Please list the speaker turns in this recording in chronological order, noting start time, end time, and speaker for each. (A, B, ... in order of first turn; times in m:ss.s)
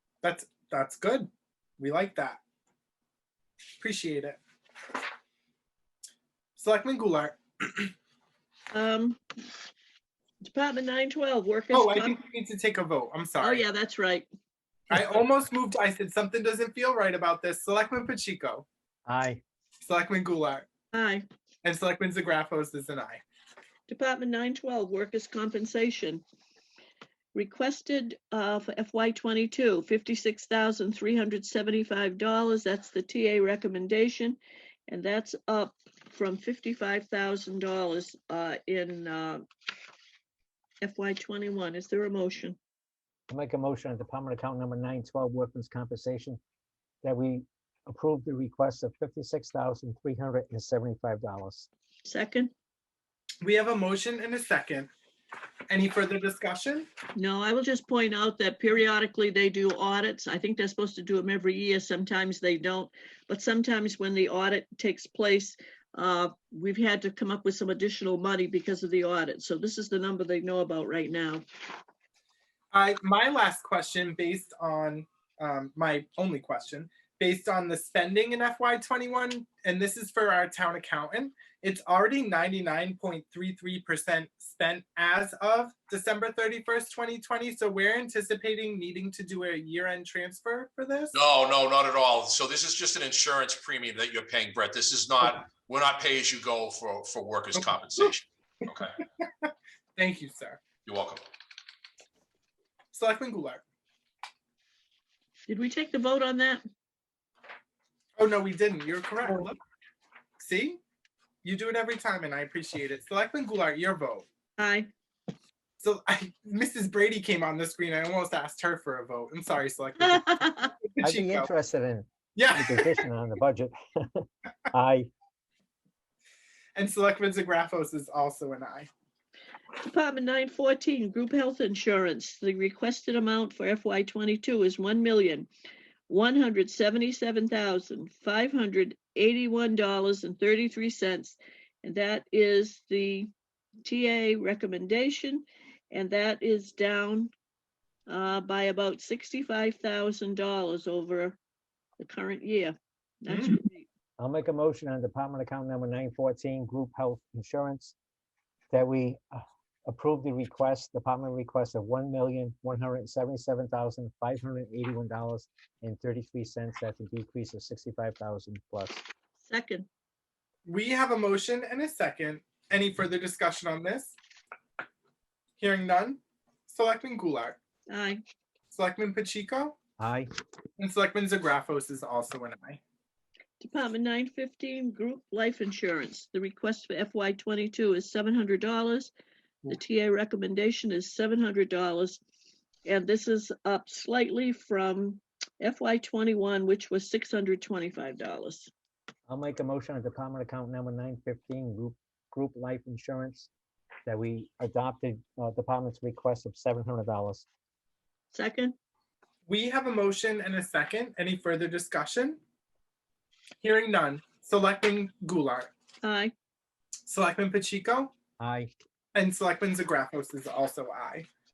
0:00.2-0:02.4 A
0:03.8-0:04.4 A
0:06.6-0:07.9 A
0:08.7-0:09.2 B
0:10.4-0:12.2 B
0:11.7-0:13.6 A
0:13.4-0:14.2 B
0:14.9-0:18.6 A
0:19.0-0:19.4 C
0:19.8-0:20.6 A
0:20.9-0:21.2 B
0:21.6-0:23.2 A
0:23.9-0:26.2 B
0:27.3-0:39.4 B
0:40.8-0:42.6 B
0:43.3-0:46.4 C
0:47.0-0:51.7 C
0:52.0-0:52.5 B
0:53.4-0:54.9 A
0:55.7-0:56.9 A
0:57.1-1:11.4 B
1:12.7-1:31.1 A
1:31.1-1:38.9 D
1:39.2-1:40.6 A
1:40.8-1:41.2 D
1:42.9-1:43.6 A
1:45.5-1:46.6 B
1:48.2-1:49.6 A
1:50.4-1:50.8 A
1:51.4-1:54.2 A
1:54.6-1:54.9 B
1:55.8-2:01.5 A
2:00.1-2:00.7 B
2:01.0-2:05.1 C
2:02.4-2:03.0 A
2:06.8-2:08.9 A
2:09.8-2:15.5 B
2:16.1-2:23.3 B
2:23.8-2:27.3 B
2:28.1-2:31.4 B
2:32.0-2:33.8 B
2:33.3-2:33.6 A
2:34.2-2:37.9 C
2:38.7-2:49.0 C
2:49.4-2:49.9 B
2:50.6-2:54.2 A
2:55.6-2:57.6 A
2:57.9-2:58.2 B
2:58.7-2:59.8 A
3:00.0-3:00.3 C
3:00.8-3:02.8 A
3:03.6-3:09.1 B
3:09.7-3:12.2 B
3:12.8-3:18.7 B
3:19.3-3:23.5 C
3:24.0-3:27.4 C
3:28.3-3:28.7 B
3:29.4-3:32.4 A
3:33.6-3:35.7 A
3:36.0-3:36.3 B
3:37.1-3:38.1 A
3:38.4-3:38.7 C
3:39.1-3:41.3 A